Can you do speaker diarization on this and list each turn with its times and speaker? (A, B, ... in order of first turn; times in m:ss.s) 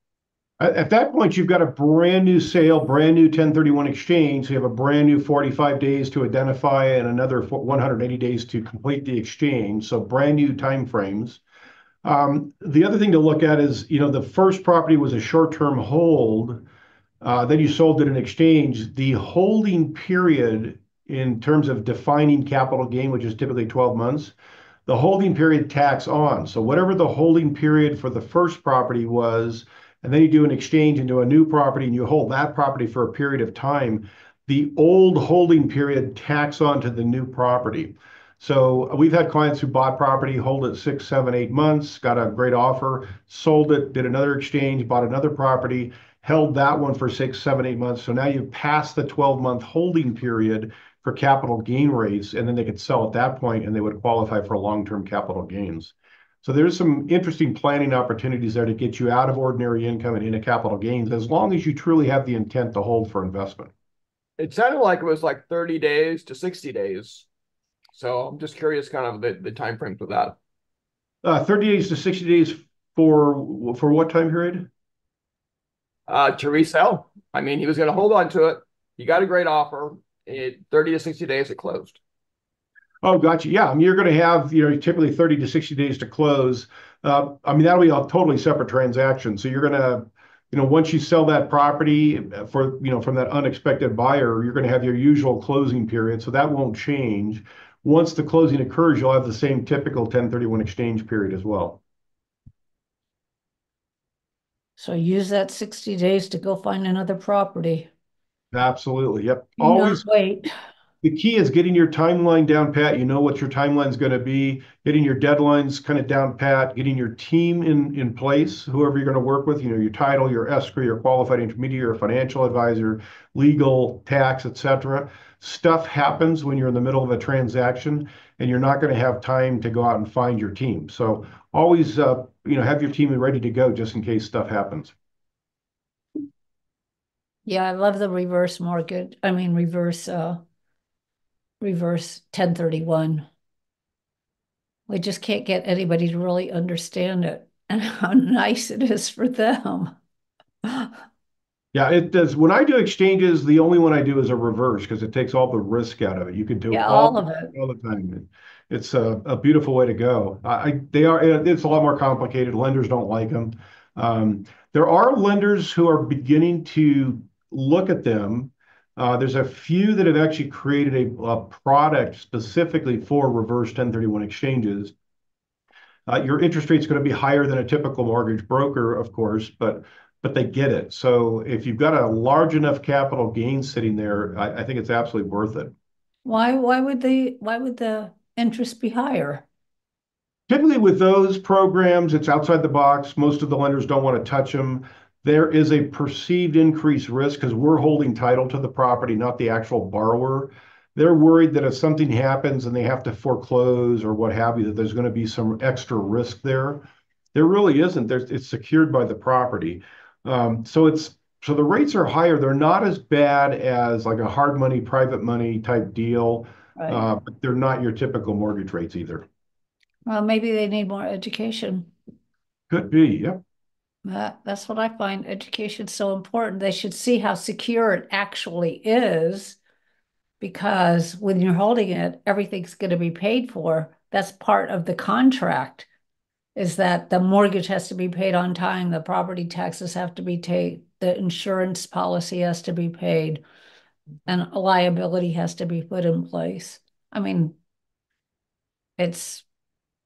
0:00.6-0:11.4 A
0:12.0-0:16.6 A
0:17.2-0:24.3 A
0:24.9-1:03.7 A
1:04.4-1:07.3 B
1:07.9-1:10.4 B
1:11.2-1:14.7 A
1:16.1-1:22.0 B
1:23.0-1:41.8 A
1:44.8-1:47.9 C
1:48.5-1:50.1 A
1:49.6-1:50.5 C
1:51.0-2:14.9 A
2:17.4-2:20.4 C
2:21.6-2:23.2 C
2:24.9-2:29.9 C
2:30.6-2:30.9 C
2:31.7-2:54.9 A
2:36.7-2:37.5 C
2:56.1-3:05.7 A
3:06.2-3:09.4 C
3:10.5-3:39.2 A
3:36.8-3:37.0 C
3:40.0-3:41.9 C
3:42.7-3:43.4 A
3:44.0-3:49.6 C
3:50.4-3:55.9 C
3:56.5-4:03.4 C
4:04.3-4:07.6 C
4:09.0-4:09.4 C